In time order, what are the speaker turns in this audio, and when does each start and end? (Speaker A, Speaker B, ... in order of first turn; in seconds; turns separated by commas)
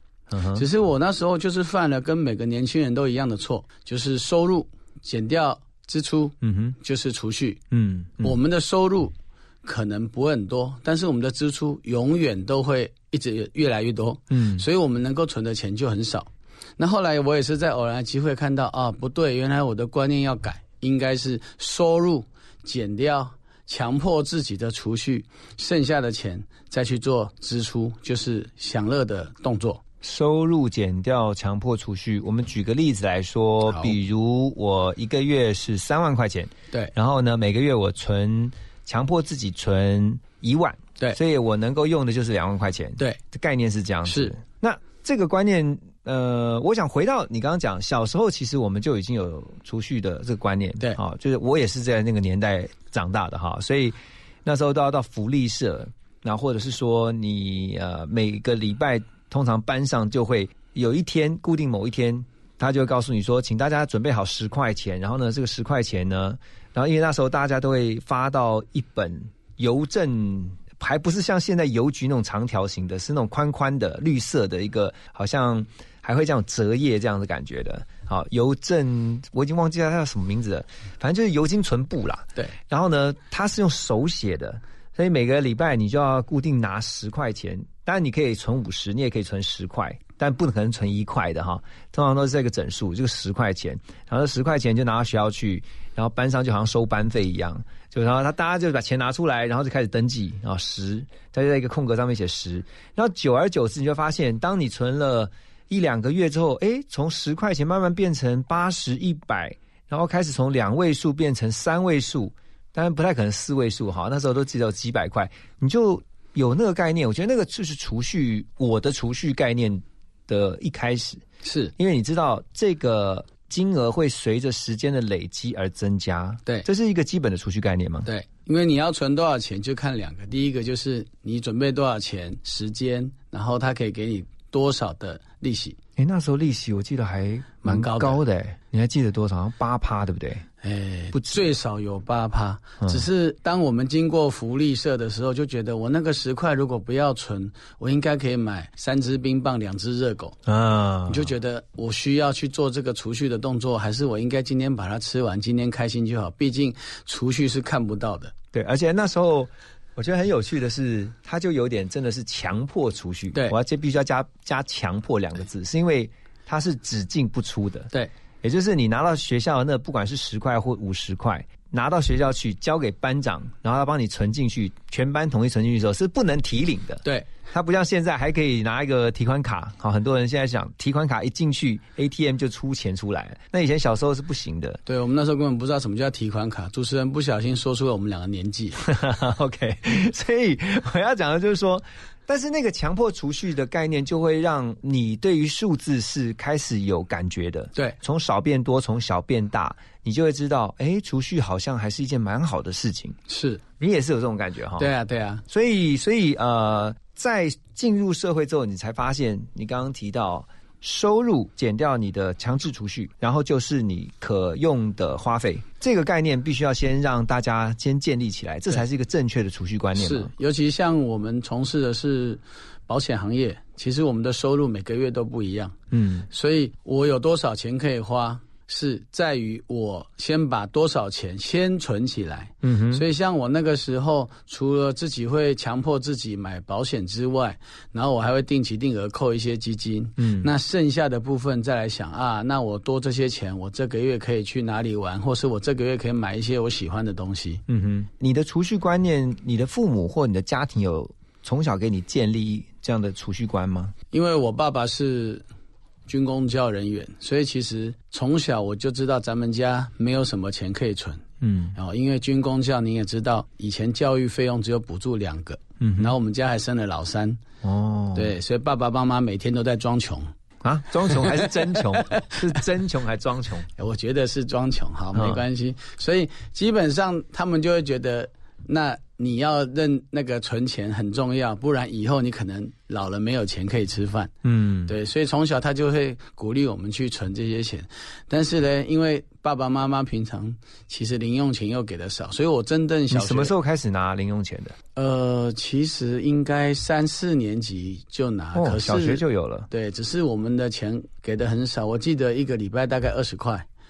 Speaker A: 0.3-0.7, Speaker B: 0.6-7.6, Speaker A: 6.4-6.8, Speaker A: 7.7-8.4, Speaker B: 8.2-29.8, Speaker A: 14.3-14.7, Speaker A: 30.0-121.2, Speaker B: 33.7-33.9, Speaker B: 44.1-44.3, Speaker B: 121.4-121.7, Speaker A: 121.8-128.1, Speaker B: 128.1-135.8, Speaker A: 136.0-140.5, Speaker B: 137.6-138.2, Speaker B: 140.6-150.4, Speaker A: 141.1-141.5, Speaker A: 150.5-151.3, Speaker B: 151.1-158.3, Speaker A: 158.5-167.9, Speaker A: 168.4-184.8, Speaker B: 177.0-177.3, Speaker B: 184.9-188.8, Speaker A: 188.8-203.2, Speaker B: 203.3-203.6, Speaker A: 203.8-204.9, Speaker B: 204.8-205.4, Speaker A: 205.5-220.3, Speaker B: 220.0-225.8, Speaker A: 225.9-226.3, Speaker B: 226.3-247.6, Speaker A: 232.6-233.1, Speaker A: 240.2-240.5, Speaker A: 247.7-253.9, Speaker B: 254.1-255.4, Speaker B: 256.1-261.2, Speaker A: 261.4-261.8, Speaker B: 261.8-267.4, Speaker A: 265.8-266.1, Speaker A: 267.6-268.3, Speaker B: 268.1-270.3, Speaker A: 270.6-273.7, Speaker B: 271.1-272.2, Speaker B: 273.8-284.3, Speaker A: 275.1-275.4, Speaker A: 284.4-284.9, Speaker B: 284.9-293.5, Speaker A: 293.1-294.8, Speaker B: 295.0-303.7, Speaker A: 298.5-299.7